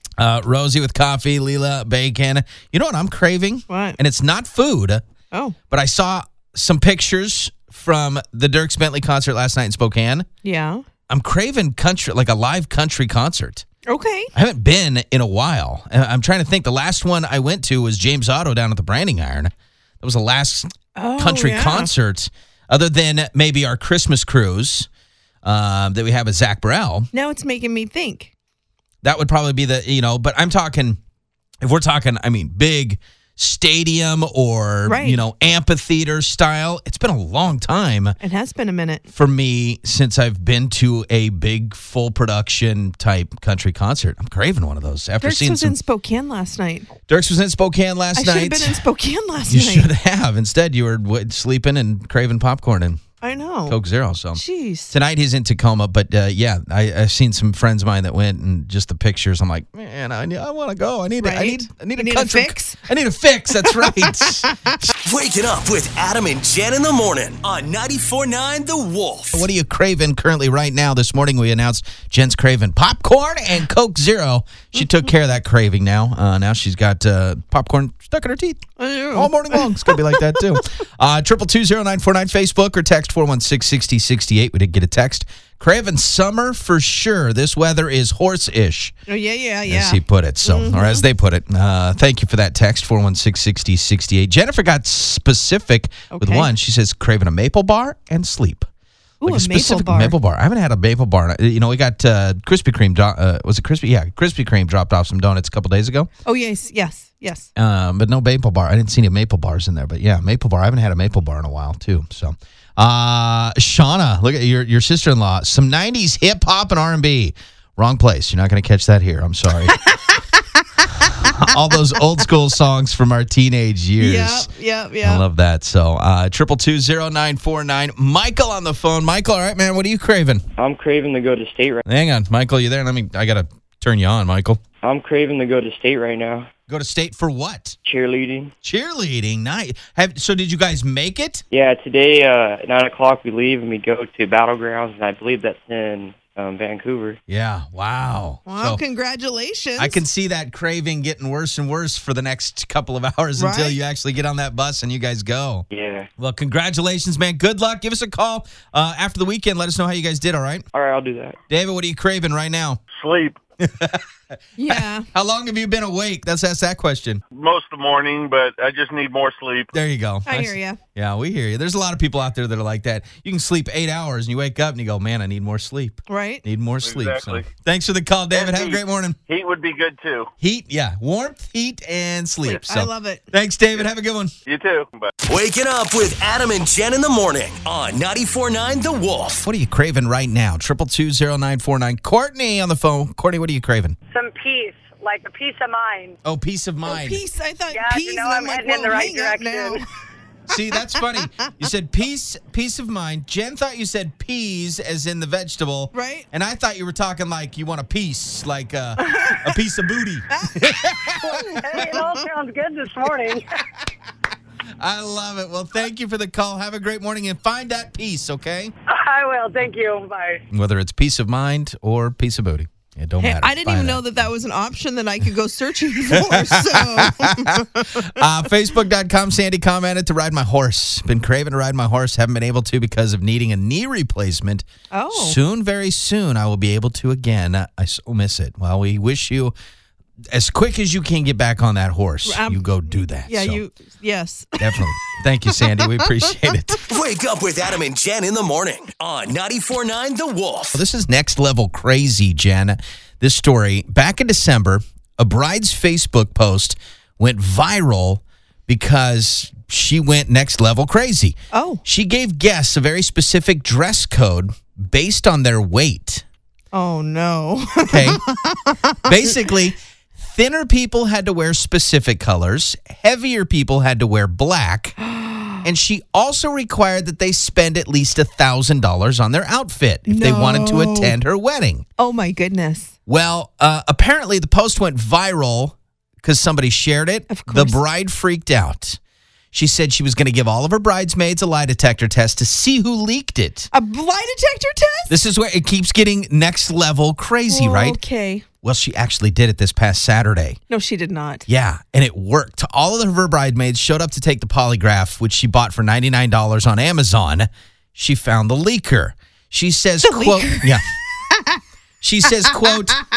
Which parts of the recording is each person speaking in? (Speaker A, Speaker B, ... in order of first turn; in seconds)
Speaker A: 0.2-5.0, 5.7-10.3, 11.1-13.7, 14.3-24.9, 25.4-27.1, 29.0-31.0, 31.6-38.2, 39.1-45.8, 47.1-48.8, 49.5-53.0, 53.7-64.5, 69.3-89.0, 89.7-98.7, 99.2-106.1, 107.6-119.8, 121.0-124.5, 125.0-130.4, 131.8-134.6, 136.7-137.8, 138.6-141.4, 147.3-148.8, 149.8-155.7, 156.2-160.7, 161.5-162.8, 163.6-164.0, 164.6-167.2, 169.7-179.2, 180.4-184.3, 189.4-194.0, 196.2-197.2, 200.5-211.8, 214.8-218.7, 220.5-224.0, 226.1-239.5, 240.3-243.6, 244.6-246.8, 250.7-266.2, 267.9-268.2, 269.1-274.9, 275.6-281.9, 283.1-289.0, 289.5-293.7, 295.1-298.0, 298.6-300.6, 301.5-310.9, 312.0-313.0
Speaker B: 3.7-4.0, 5.3-5.6, 10.4-10.8, 13.9-14.3, 21.0-21.9, 27.1-28.3, 34.9-35.2, 38.2-39.0, 45.2-46.9, 48.1-49.9, 53.2-53.8, 54.3-54.9, 61.2-62.9, 63.7-64.9, 78.8-80.6, 89.1-91.0, 96.1-96.5, 99.2-100.2, 106.2-107.5, 119.7-121.3, 124.0-125.2, 148.5-150.0, 153.4-153.8, 164.6-165.1, 170.3-170.8, 176.1-176.4, 182.4-183.2, 196.9-199.8, 200.5-201.5, 205.9-206.3, 209.0-209.5, 210.4-210.7, 211.3-212.3, 223.2-228.1, 234.9-235.4, 242.3-242.6, 243.3-244.8, 261.5-261.8, 266.7-269.1, 275.0-275.7, 280.1-281.1, 282.0-282.9, 287.3-287.8, 293.7-295.1, 297.5-298.5, 300.7-301.5, 310.0-311.6
Speaker C: 65.0-69.5, 185.3-189.5, 246.9-250.8
Speaker D: 130.6-131.8, 134.8-136.5, 137.9-138.5, 141.5-147.2, 155.7-156.1, 160.7-161.4
Speaker E: 162.9-163.4, 167.3-169.7, 176.8-177.5, 178.3-180.3, 184.5-185.1
Speaker F: 194.1-196.2, 197.7-199.8, 211.2-213.4, 218.9-220.4